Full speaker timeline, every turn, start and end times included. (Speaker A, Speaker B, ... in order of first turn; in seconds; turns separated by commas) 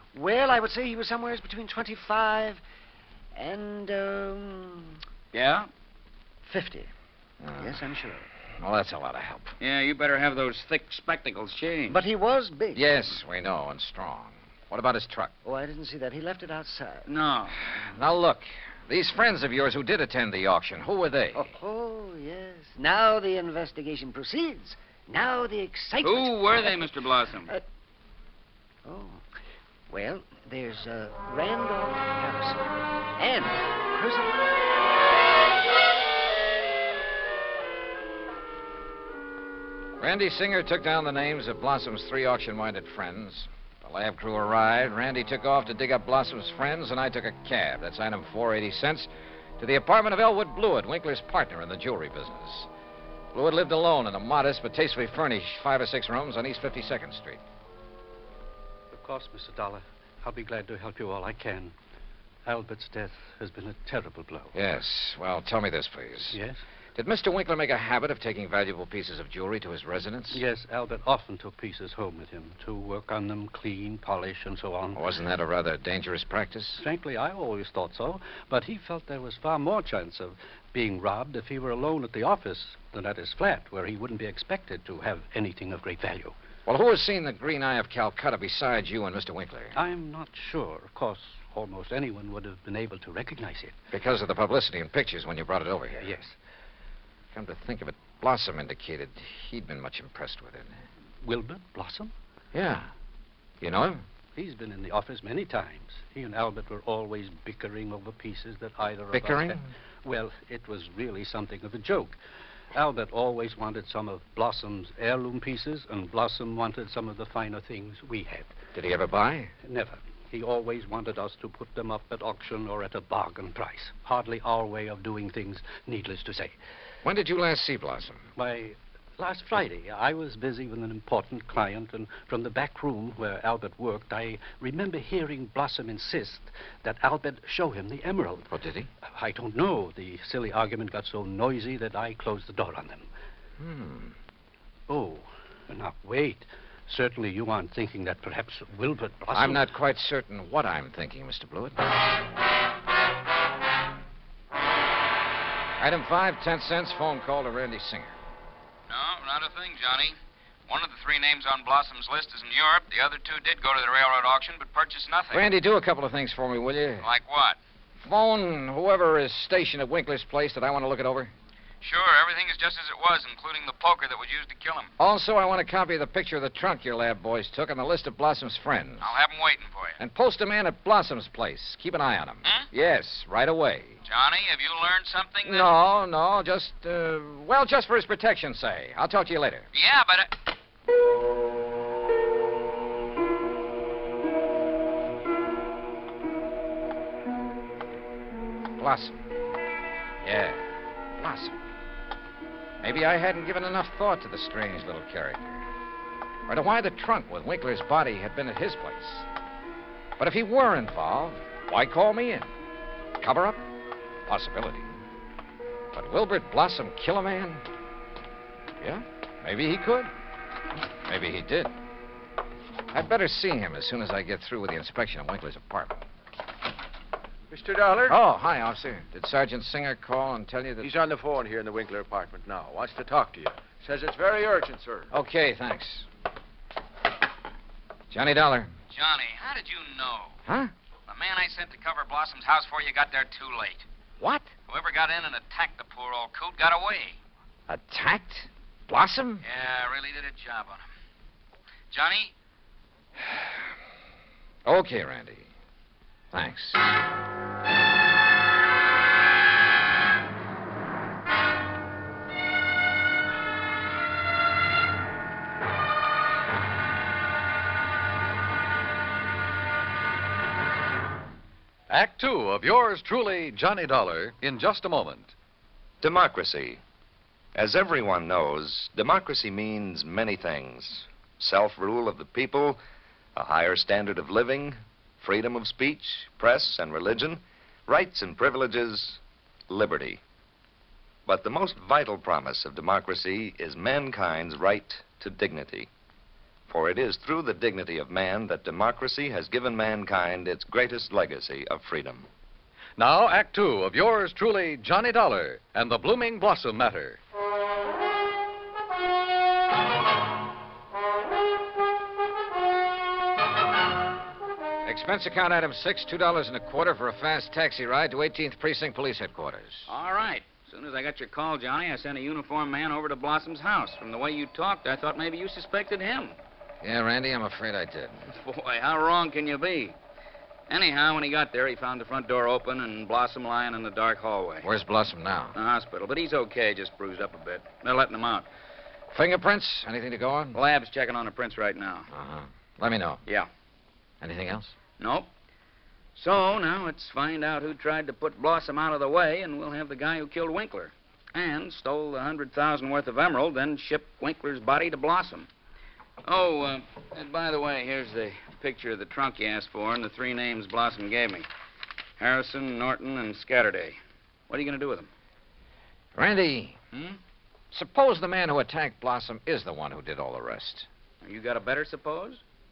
Speaker A: 0.1-2.6, Speaker A: 3.3-5.0, Speaker B: 5.3-5.7, Speaker A: 6.4-6.9, Speaker C: 7.4-7.8, Speaker A: 7.6-8.3, Speaker C: 8.6-9.5, Speaker B: 9.6-12.0, Speaker A: 11.9-12.8, Speaker C: 12.7-15.3, Speaker A: 15.4-17.1, Speaker B: 17.1-17.6, Speaker C: 17.7-21.5, Speaker A: 21.3-26.9, Speaker B: 26.0-27.5, Speaker A: 28.8-29.2, Speaker A: 29.9-34.5, Speaker C: 40.0-52.7, Speaker C: 53.3-57.4, Speaker D: 58.9-61.7, Speaker D: 62.5-64.5, Speaker C: 64.5-66.4, Speaker D: 66.3-66.6, Speaker C: 66.9-70.4, Speaker D: 70.3-75.0, Speaker C: 74.9-76.8, Speaker D: 76.8-86.3, Speaker C: 86.7-89.7, Speaker D: 89.7-93.8, Speaker C: 93.9-96.1, Speaker D: 96.0-96.3, Speaker C: 97.3-100.8, Speaker D: 101.2-102.1, Speaker C: 102.5-102.9, Speaker C: 103.6-104.0, Speaker D: 104.3-112.2, Speaker C: 109.1-109.7, Speaker D: 112.7-118.5, Speaker C: 118.7-119.5, Speaker D: 119.6-126.5, Speaker C: 127.0-128.2, Speaker D: 128.3-138.5, Speaker C: 138.5-138.9, Speaker D: 139.0-143.1, Speaker C: 143.6-144.1, Speaker D: 144.9-149.7, Speaker C: 149.3-152.0, Speaker C: 155.8-158.2, Speaker B: 158.9-160.2, Speaker B: 160.7-165.5, Speaker C: 165.3-167.1, Speaker B: 167.0-167.6, Speaker C: 168.0-171.3, Speaker B: 171.8-174.9, Speaker C: 175.0-179.2, Speaker B: 179.0-180.0, Speaker C: 180.0-184.0, Speaker B: 184.1-185.7, Speaker C: 185.4-189.7, Speaker B: 189.7-190.3, Speaker C: 198.8-199.2, Speaker C: 200.2-201.6, Speaker C: 202.8-205.6, Speaker C: 206.5-209.3, Speaker C: 210.2-212.5, Speaker C: 213.2-213.6, Speaker C: 214.3-215.0, Speaker C: 215.9-217.6, Speaker C: 218.8-220.1, Speaker C: 221.0-221.8, Speaker C: 222.9-226.0, Speaker E: 227.5-228.2, Speaker C: 228.1-230.9, Speaker E: 230.8-235.1, Speaker C: 235.1-236.1, Speaker C: 238.1-238.7, Speaker B: 238.9-240.3, Speaker C: 240.4-240.7, Speaker B: 241.1-243.8, Speaker C: 244.2-244.5, Speaker B: 244.7-247.2, Speaker C: 247.7-249.4, Speaker B: 249.4-250.8, Speaker B: 251.9-252.3, Speaker C: 253.2-253.6, Speaker C: 254.6-255.5, Speaker C: 256.3-256.9, Speaker F: 271.9-275.3, Speaker G: 276.0-276.8, Speaker G: 277.5-282.8, Speaker G: 283.4-290.2, Speaker G: 291.2-295.9, Speaker G: 296.7-302.3, Speaker F: 303.0-307.2, Speaker C: 314.8-319.9, Speaker B: 319.9-326.4, Speaker C: 326.8-328.3, Speaker B: 328.3-329.9, Speaker B: 330.7-334.7, Speaker C: 334.6-335.6, Speaker B: 335.6-338.5, Speaker C: 339.1-340.6, Speaker B: 340.5-342.1, Speaker C: 342.1-343.2, Speaker C: 344.2-344.8, Speaker B: 345.0-345.3, Speaker B: 346.1-355.5, Speaker B: 356.2-361.5, Speaker B: 362.2-364.0, Speaker B: 364.5-365.1, Speaker C: 366.1-366.8, Speaker B: 366.9-367.2, Speaker C: 367.7-370.9, Speaker B: 371.2-372.4